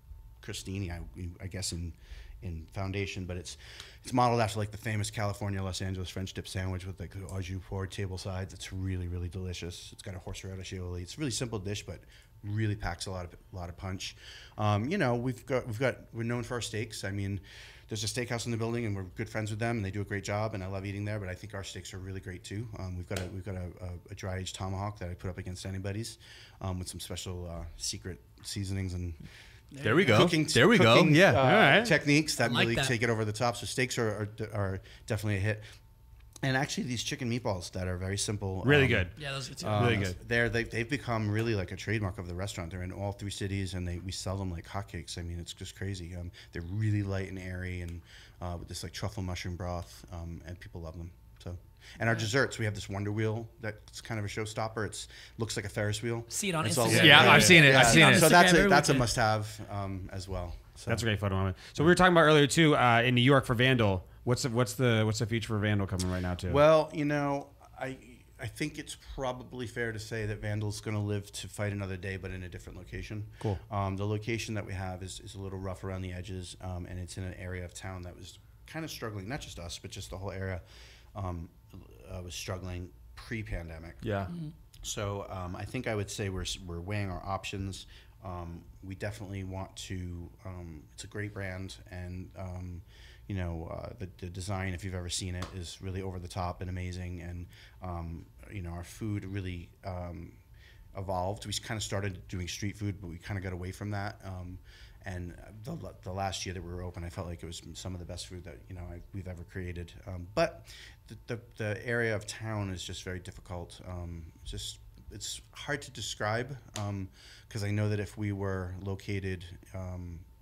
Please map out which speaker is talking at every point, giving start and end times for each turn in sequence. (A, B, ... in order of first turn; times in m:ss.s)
0:00.4-0:29.2 A
0:29.7-0:30.3 B
0:29.8-0:31.5 C
0:30.0-0:35.6 A
0:31.3-0:32.0 D
0:32.4-0:32.9 B
0:36.4-0:39.1 A
0:38.6-0:39.2 D
0:39.2-0:40.1 B
0:39.6-1:01.0 A
0:39.7-0:40.2 D
0:56.3-0:59.1 B
0:56.8-0:57.7 D
0:56.9-0:58.4 C
1:00.9-1:06.6 D
1:06.5-1:20.6 A
1:21.1-1:24.0 A
1:24.0-1:24.3 C
1:24.8-1:40.4 A
1:40.9-2:00.2 A